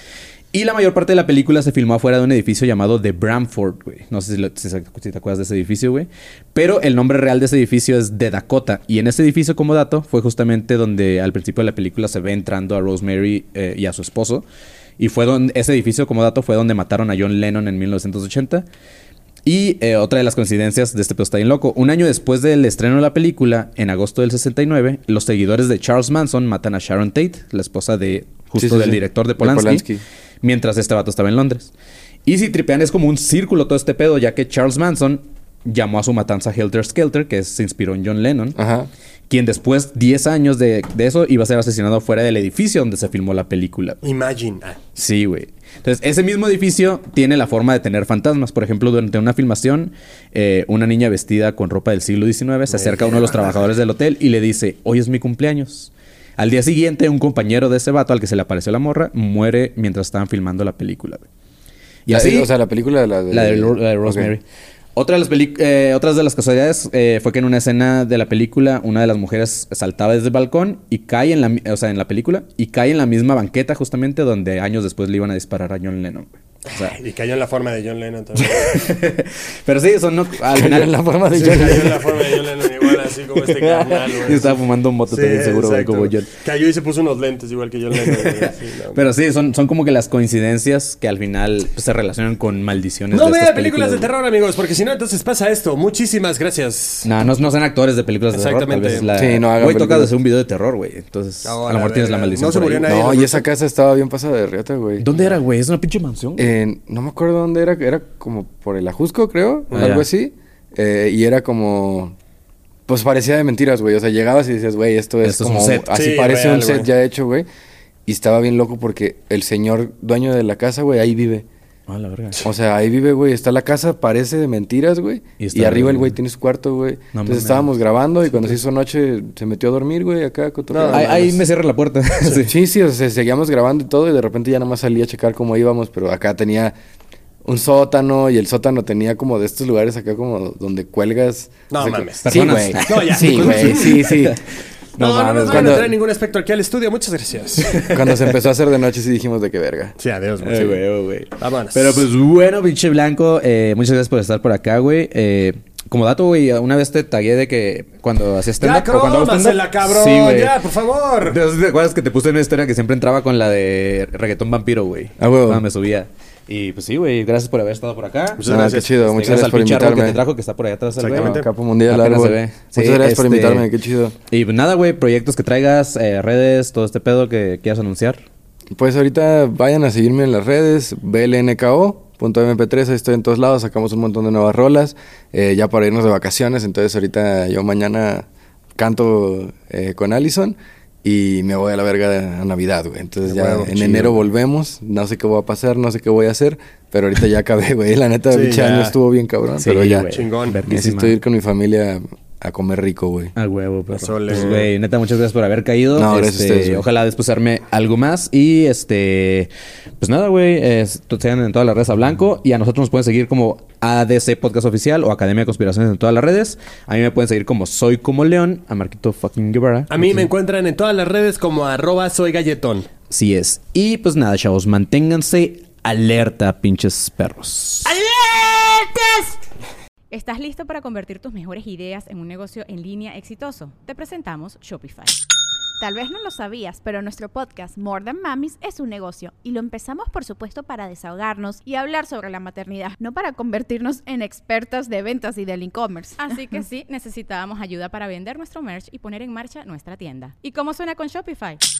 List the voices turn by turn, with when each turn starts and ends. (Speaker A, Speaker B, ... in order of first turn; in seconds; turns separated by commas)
Speaker A: 0.5-14.4, Speaker A: 15.0-18.6, Speaker A: 19.4-29.9, Speaker B: 28.6-30.0, Speaker A: 30.4-31.7, Speaker A: 32.2-38.6, Speaker B: 38.5-38.9, Speaker A: 39.3-44.0, Speaker C: 44.0-44.8, Speaker A: 45.0-61.2, Speaker C: 52.7-53.5, Speaker A: 62.0-62.5, Speaker B: 62.1-64.3, Speaker A: 63.3-64.4, Speaker A: 65.0-77.0, Speaker C: 76.7-78.9, Speaker A: 78.4-81.7, Speaker B: 80.5-82.2, Speaker C: 81.3-84.6, Speaker A: 83.6-86.3, Speaker C: 85.1-89.0, Speaker A: 88.0-94.1, Speaker C: 93.1-97.1, Speaker A: 97.0-103.0, Speaker C: 98.3-99.1, Speaker B: 99.1-100.1, Speaker C: 101.4-103.4, Speaker B: 102.8-105.2, Speaker A: 105.0-106.5, Speaker B: 106.4-112.2, Speaker C: 109.7-110.0, Speaker A: 109.8-110.0, Speaker B: 112.9-117.5, Speaker A: 115.2-115.9, Speaker C: 115.9-116.9, Speaker B: 118.0-121.5, Speaker A: 121.9-122.4, Speaker B: 122.4-131.3, Speaker A: 125.4-126.2, Speaker A: 127.1-127.7, Speaker C: 130.7-131.4, Speaker A: 130.9-132.6, Speaker B: 132.5-136.8, Speaker B: 137.4-144.4, Speaker C: 141.7-143.9, Speaker A: 142.2-144.4, Speaker A: 145.0-145.9, Speaker C: 145.0-147.9, Speaker B: 145.5-145.9, Speaker A: 147.7-148.2, Speaker B: 147.9-149.9, Speaker C: 150.0-150.8, Speaker A: 150.4-160.6, Speaker C: 151.4-152.1, Speaker C: 158.6-161.4, Speaker A: 161.2-173.7, Speaker B: 165.2-165.6, Speaker C: 168.4-168.9, Speaker B: 168.4-170.2, Speaker C: 171.0-171.4, Speaker B: 171.1-174.1, Speaker A: 174.3-178.2, Speaker B: 178.7-200.1, Speaker C: 193.3-194.0, Speaker C: 198.3-198.9, Speaker A: 199.6-201.1, Speaker C: 200.1-200.6, Speaker B: 200.7-203.3, Speaker A: 203.4-220.3, Speaker C: 203.9-204.7, Speaker B: 205.9-206.8, Speaker C: 219.9-222.9, Speaker A: 223.1-227.9, Speaker C: 227.9-229.2, Speaker D: 230.1-235.2, Speaker E: 235.8-246.2, Speaker D: 246.2-251.6